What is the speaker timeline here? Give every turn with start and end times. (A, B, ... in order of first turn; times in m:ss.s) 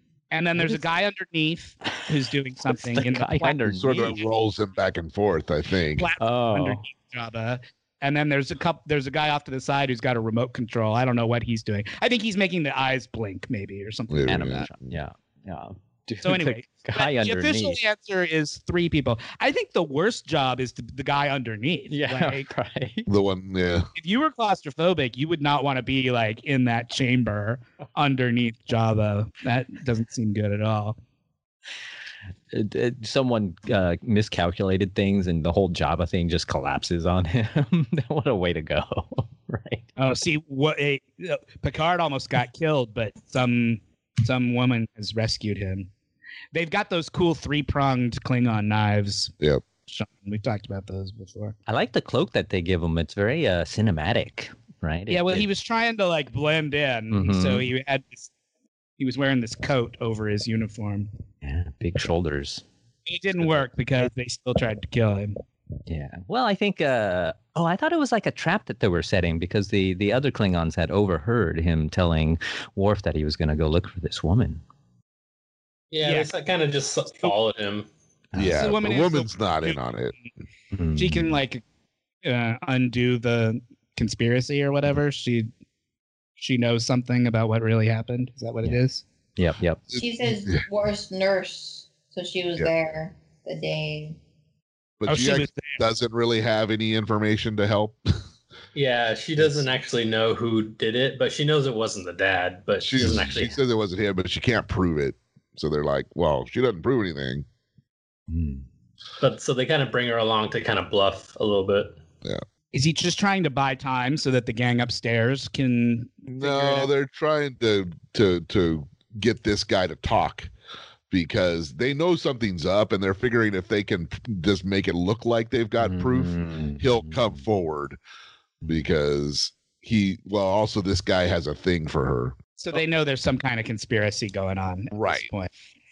0:00.3-0:04.2 A
0:02.8-0:04.2 B
0:03.7-0:06.1 C
0:06.0-0:14.7 A
0:06.2-0:06.8 B
0:14.1-0:14.7 C
0:14.3-0:17.8 B
0:16.2-0:22.5 A
0:21.9-0:23.1 B
0:23.1-0:23.9 C
0:24.0-0:31.0 A
0:32.5-0:39.9 B
0:40.0-0:45.9 A
0:46.5-0:49.3 A
0:49.9-0:51.6 A
0:51.7-0:55.5 B
0:55.1-0:58.3 A
0:57.1-0:57.7 B
0:59.0-1:01.1 A
1:01.4-1:02.6 B
1:03.1-1:05.3 A
1:05.9-1:14.6 B
1:15.9-1:17.9 D
1:16.0-1:16.3 A
1:18.3-1:18.7 B
1:18.3-1:20.1 C
1:18.5-1:19.8 A
1:20.7-1:21.4 B
1:20.9-1:21.6 A
1:22.2-1:25.5 A
1:26.4-1:29.0 A
1:29.4-1:29.8 B
1:29.9-1:30.6 C
1:29.9-1:34.2 E
1:35.0-1:38.2 C
1:35.1-1:35.8 A
1:38.7-1:43.6 D
1:42.8-1:47.4 C
1:43.0-1:43.3 B
1:48.3-1:48.6 B
1:49.2-1:52.0 D
1:52.7-1:56.9 A
1:56.3-2:00.5 C
2:01.1-2:08.0 C
2:05.8-2:07.4 B
2:08.6-2:12.4 C
2:12.6-2:15.5 A
2:14.9-2:15.3 C